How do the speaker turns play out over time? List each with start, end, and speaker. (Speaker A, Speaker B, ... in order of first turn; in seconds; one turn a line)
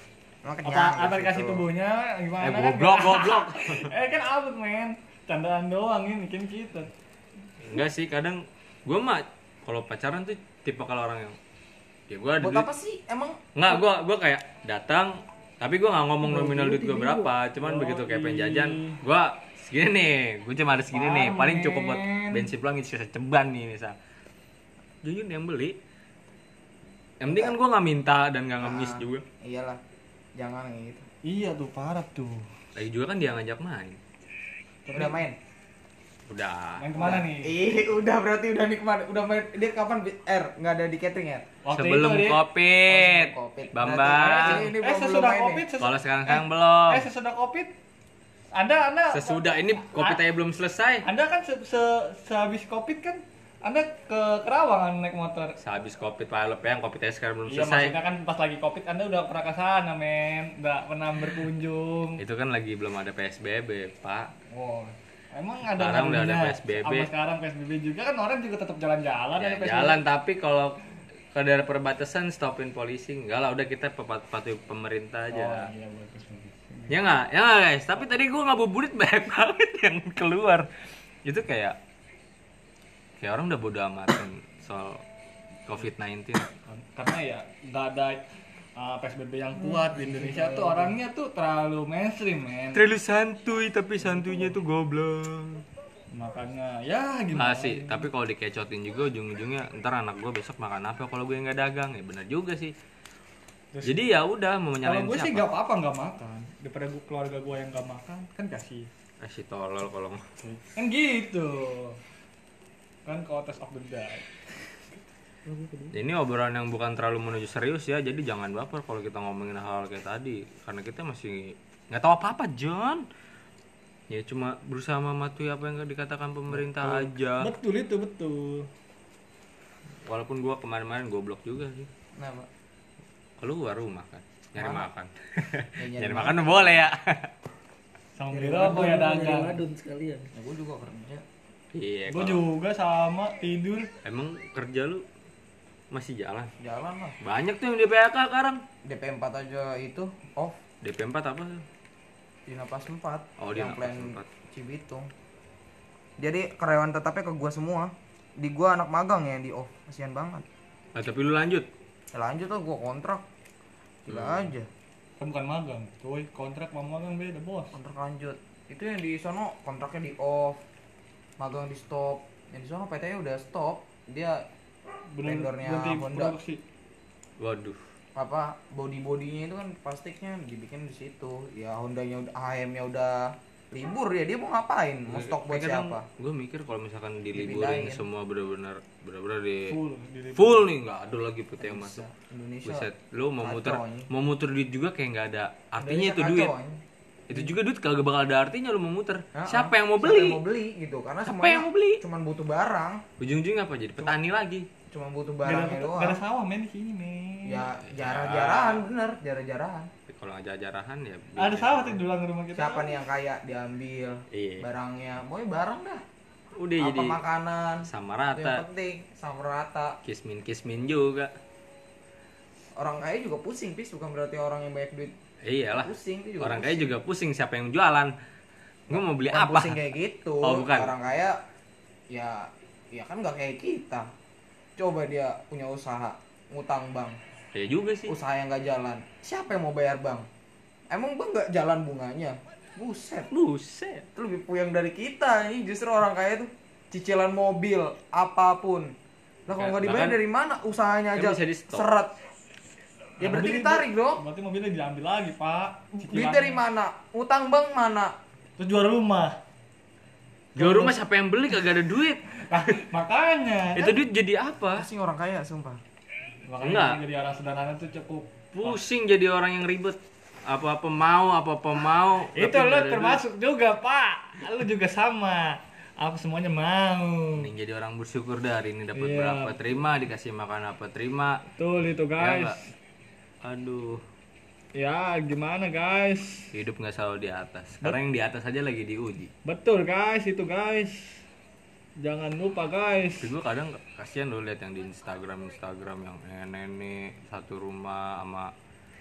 Speaker A: 0.4-1.7
Speaker B: 0.7-6.9
Speaker C: 2.4-3.9
Speaker C: 7.6-11.4
Speaker C: 12.1-12.7
Speaker A: 12.4-13.4
Speaker C: 13.6-24.0
Speaker B: 16.3-19.0
Speaker B: 20.9-22.5
Speaker C: 25.0-25.8
Speaker C: 27.2-29.2
Speaker A: 27.3-27.6
Speaker A: 28.6-29.8
Speaker A: 30.4-31.1
Speaker B: 31.2-32.4
Speaker C: 32.8-34.0
Speaker B: 34.9-35.2
Speaker A: 34.9-35.4
Speaker C: 36.3-37.0
Speaker B: 36.8-37.6
Speaker A: 37.0-41.5
Speaker B: 41.6-42.4
Speaker C: 41.7-44.7
Speaker A: 42.9-45.7
Speaker B: 44.2-47.7
Speaker C: 45.8-47.0
Speaker B: 48.5-50.2
Speaker C: 49.1-51.1
Speaker B: 51.0-55.6
Speaker C: 55.6-58.0
Speaker B: 57.5-62.2
Speaker C: 62.2-64.3
Speaker B: 64.5-70.0
Speaker C: 65.8-67.1
Speaker C: 69.4-70.8
Speaker C: 71.3-75.7
Speaker B: 75.3-77.0
Speaker C: 76.9-80.7
Speaker C: 81.2-81.8
Speaker C: 83.2-85.0
Speaker C: 85.7-86.5
Speaker B: 86.7-92.8
Speaker A: 89.6-90.8
Speaker C: 92.7-95.7
Speaker B: 96.1-98.1
Speaker C: 97.3-102.7
Speaker B: 103.7-104.0
Speaker C: 103.8-105.5
Speaker B: 104.8-108.9
Speaker C: 109.2-110.2
Speaker B: 110.4-112.0
Speaker B: 113.1-114.9
Speaker C: 115.9-123.0
Speaker C: 124.1-127.5
Speaker B: 126.5-128.7
Speaker C: 130.1-131.9
Speaker A: 132.2-132.5
Speaker C: 133.4-137.3
Speaker A: 134.6-134.9
Speaker A: 135.8-136.9
Speaker B: 138.2-139.6
Speaker D: 138.3-140.3
Speaker A: 140.3-141.2
Speaker C: 141.7-142.4
Speaker B: 142.1-143.9
Speaker C: 144.0-145.0
Speaker C: 145.9-146.5
Speaker A: 146.6-147.2
Speaker C: 147.2-148.6
Speaker A: 148.8-150.6
Speaker C: 150.8-151.6
Speaker A: 152.5-155.1
Speaker C: 153.4-154.3
Speaker A: 156.2-160.5
Speaker C: 160.9-161.7
Speaker A: 162.1-163.2
Speaker A: 164.1-164.7
Speaker C: 164.1-164.5
Speaker B: 165.2-167.8
Speaker A: 167.7-170.6
Speaker A: 171.4-174.4
Speaker B: 175.1-176.6
Speaker A: 175.2-176.4
Speaker C: 177.4-177.8
Speaker A: 178.2-186.0
Speaker C: 185.1-189.7
Speaker A: 187.3-188.0
Speaker B: 189.7-190.7
Speaker C: 190.3-192.0
Speaker A: 191.6-192.9
Speaker C: 192.7-196.5
Speaker A: 193.4-194.1
Speaker A: 195.8-196.8
Speaker C: 197.3-200.4
Speaker A: 199.3-203.0
Speaker C: 201.2-202.0
Speaker C: 203.2-204.7
Speaker A: 204.9-206.2
Speaker B: 205.4-207.7
Speaker A: 207.4-209.9
Speaker C: 207.9-208.8
Speaker C: 210.1-212.0
Speaker B: 211.4-213.0
Speaker A: 212.5-216.0
Speaker C: 214.3-214.7
Speaker C: 216.6-217.2
Speaker A: 216.8-220.0
Speaker C: 217.9-218.6
Speaker C: 220.0-221.3
Speaker A: 222.8-225.1
Speaker C: 225.4-228.1
Speaker A: 225.7-227.0
Speaker C: 228.9-229.8
Speaker A: 228.9-231.4
Speaker C: 230.4-230.9
Speaker A: 232.1-234.1
Speaker A: 234.8-237.2
Speaker C: 237.5-238.2
Speaker A: 238.1-240.3
Speaker A: 240.9-243.3
Speaker C: 243.3-244.1
Speaker A: 244.2-248.9
Speaker A: 249.5-252.1
Speaker C: 249.5-250.2
Speaker C: 251.2-251.9
Speaker B: 253.2-256.6
Speaker A: 253.2-254.2
Speaker A: 255.9-258.1
Speaker B: 258.6-259.4
Speaker C: 260.6-262.8
Speaker B: 260.6-260.9
Speaker B: 262.4-264.0
Speaker C: 263.8-264.9
Speaker A: 264.8-265.8
Speaker B: 266.5-268.8
Speaker C: 266.6-267.0
Speaker C: 268.5-273.2
Speaker B: 272.3-277.5
Speaker C: 277.4-281.4
Speaker B: 278.9-279.6
Speaker B: 281.6-282.6
Speaker C: 282.2-282.6
Speaker C: 283.4-284.0
Speaker B: 284.7-286.5
Speaker C: 286.5-289.3
Speaker B: 289.4-291.2
Speaker B: 292.0-293.3
Speaker C: 293.1-298.5